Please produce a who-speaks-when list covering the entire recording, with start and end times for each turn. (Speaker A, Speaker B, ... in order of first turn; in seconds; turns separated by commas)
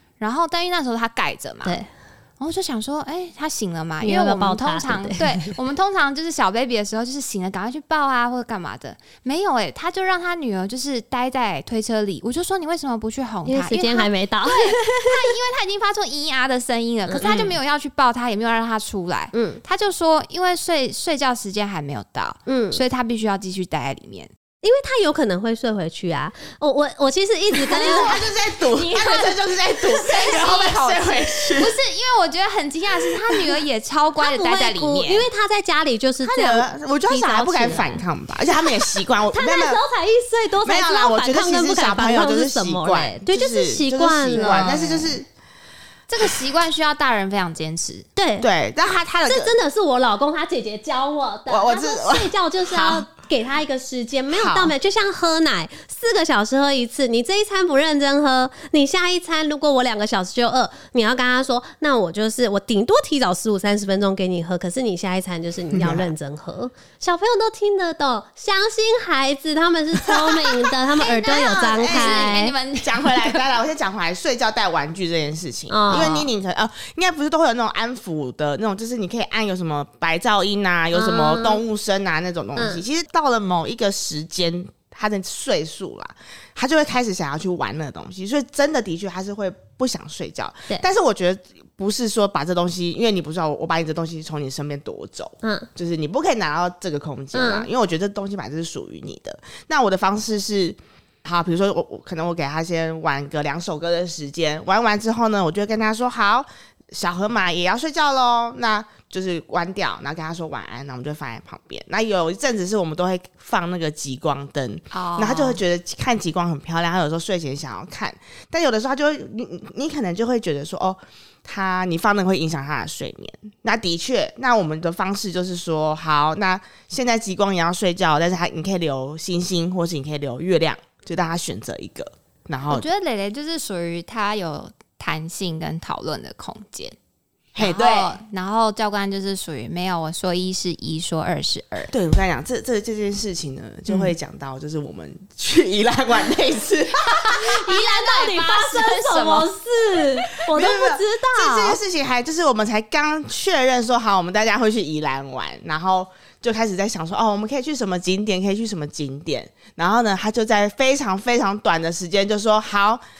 Speaker A: 0.2-1.8, Speaker A: 2.4-24.3, Speaker B: 4.0-5.5, Speaker B: 13.4-15.3, Speaker B: 17.1-17.5, Speaker B: 19.3-19.6, Speaker B: 22.5-22.8, Speaker B: 24.6-28.2, Speaker C: 27.6-31.8, Speaker A: 27.7-35.3, Speaker B: 34.2-38.0, Speaker C: 36.2-39.8, Speaker B: 38.8-44.9, Speaker C: 40.6-45.2, Speaker A: 44.4-45.1, Speaker A: 46.1-48.1, Speaker B: 48.1-48.5, Speaker C: 48.4-49.5, Speaker B: 49.3-72.5, Speaker C: 51.5-53.1, Speaker C: 54.3-54.7, Speaker C: 65.7-66.1, Speaker C: 70.0-132.8, Speaker A: 71.3-73.4, Speaker B: 75.7-76.3, Speaker B: 80.9-81.6, Speaker B: 82.6-82.8, Speaker B: 95.4-95.7, Speaker B: 97.3-97.7, Speaker A: 114.9-115.6, Speaker A: 132.7-136.9, Speaker C: 137.5-138.2, Speaker A: 137.6-141.9, Speaker C: 141.9-147.4, Speaker A: 143.9-144.1, Speaker A: 147.1-149.5, Speaker B: 147.3-151.8, Speaker C: 150.5-163.0